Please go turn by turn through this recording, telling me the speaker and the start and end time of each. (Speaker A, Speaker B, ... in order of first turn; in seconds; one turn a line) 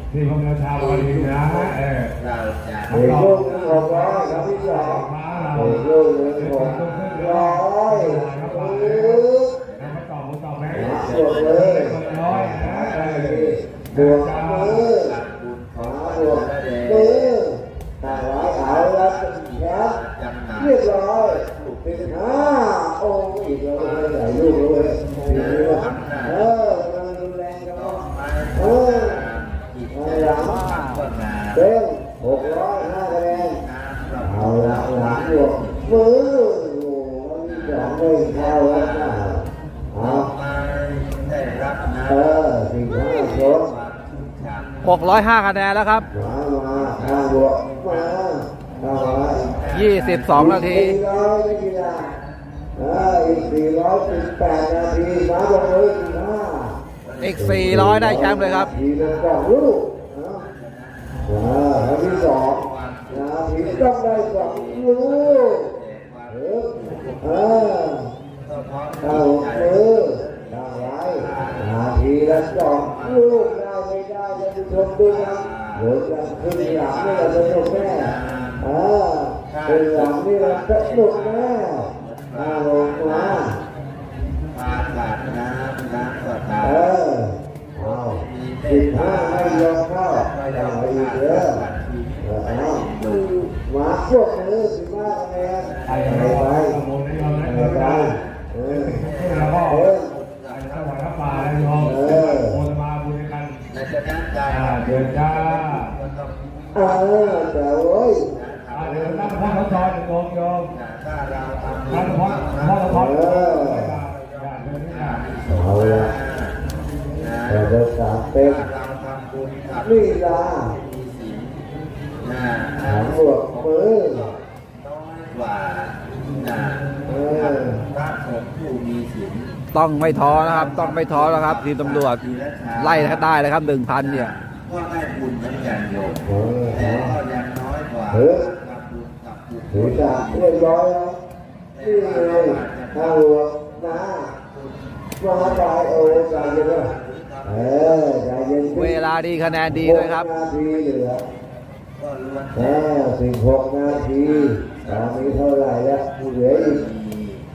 Speaker A: 0.1-2.1
Speaker B: 0.8-1.5
Speaker B: 2.2-3.8
Speaker A: 2.9-3.4
Speaker C: 2.9-9.6
Speaker A: 4.7-5.8
Speaker A: 6.4-9.2
Speaker A: 9.8-14.9
Speaker C: 10.7-15.2
Speaker B: 11.0-12.2
Speaker B: 14.8-15.8
Speaker C: 15.8-20.0
Speaker B: 16.5-16.8
Speaker B: 20.0-20.6
Speaker C: 20.6-28.0
Speaker B: 21.4-21.8
Speaker D: 25.1-25.8
Speaker B: 25.1-26.3
Speaker B: 28.0-31.5
Speaker C: 28.6-29.2
Speaker C: 29.9-30.6
Speaker D: 30.4-31.1
Speaker C: 31.6-33.6
Speaker B: 33.6-35.0
Speaker C: 34.2-40.3
Speaker B: 40.2-42.1
Speaker C: 42.1-43.7
Speaker B: 43.2-44.8
Speaker D: 44.8-46.0
Speaker C: 46.1-49.5
Speaker B: 49.3-50.4
Speaker D: 49.7-51.0
Speaker C: 50.3-52.1
Speaker C: 52.8-56.8
Speaker B: 57.1-57.3
Speaker D: 57.2-58.7
Speaker C: 57.4-60.4
Speaker B: 60.6-60.9
Speaker C: 61.3-65.7
Speaker B: 62.6-63.1
Speaker B: 65.6-66.3
Speaker C: 66.3-68.1
Speaker B: 66.9-67.2
Speaker B: 68.5-69.7
Speaker C: 69.0-83.6
Speaker B: 71.2-71.5
Speaker B: 76.8-77.3
Speaker B: 78.0-78.5
Speaker B: 80.7-81.1
Speaker B: 81.9-82.7
Speaker B: 84.5-86.6
Speaker C: 86.6-91.6
Speaker B: 88.4-89.2
Speaker B: 91.7-92.0
Speaker C: 92.2-92.9
Speaker B: 92.9-93.3
Speaker C: 93.5-96.8
Speaker B: 95.7-96.0
Speaker A: 95.9-99.9
Speaker B: 97.2-97.5
Speaker C: 97.4-99.1
Speaker B: 99.1-102.2
Speaker C: 99.6-100.1
Speaker A: 100.5-103.6
Speaker C: 101.8-102.6
Speaker B: 103.8-106.3
Speaker A: 104.5-105.9
Speaker C: 106.7-108.3
Speaker B: 108.4-109.3
Speaker A: 108.7-110.7
Speaker C: 108.8-109.3
Speaker B: 110.8-112.8
Speaker A: 111.9-115.3
Speaker C: 112.9-114.0
Speaker B: 114.2-116.5
Speaker C: 115.5-116.1
Speaker C: 117.5-118.7
Speaker B: 118.7-119.8
Speaker C: 119.8-120.8
Speaker B: 120.8-121.5
Speaker B: 122.3-122.9
Speaker C: 122.8-124.3
Speaker B: 124.8-126.8
Speaker C: 127.0-127.8
Speaker B: 127.4-129.5
Speaker D: 129.7-132.2
Speaker B: 130.6-133.2
Speaker D: 132.8-134.3
Speaker B: 134.3-136.2
Speaker C: 136.2-137.2
Speaker B: 137.0-140.2
Speaker C: 138.1-138.4
Speaker C: 139.7-141.2
Speaker C: 141.8-144.3
Speaker B: 142.4-142.9
Speaker C: 145.2-146.9
Speaker B: 146.4-147.4
Speaker C: 147.4-149.0
Speaker D: 148.7-150.3
Speaker C: 149.7-151.2
Speaker B: 152.0-152.5
Speaker C: 152.5-156.8
Speaker B: 154.5-154.8
Speaker B: 156.8-157.3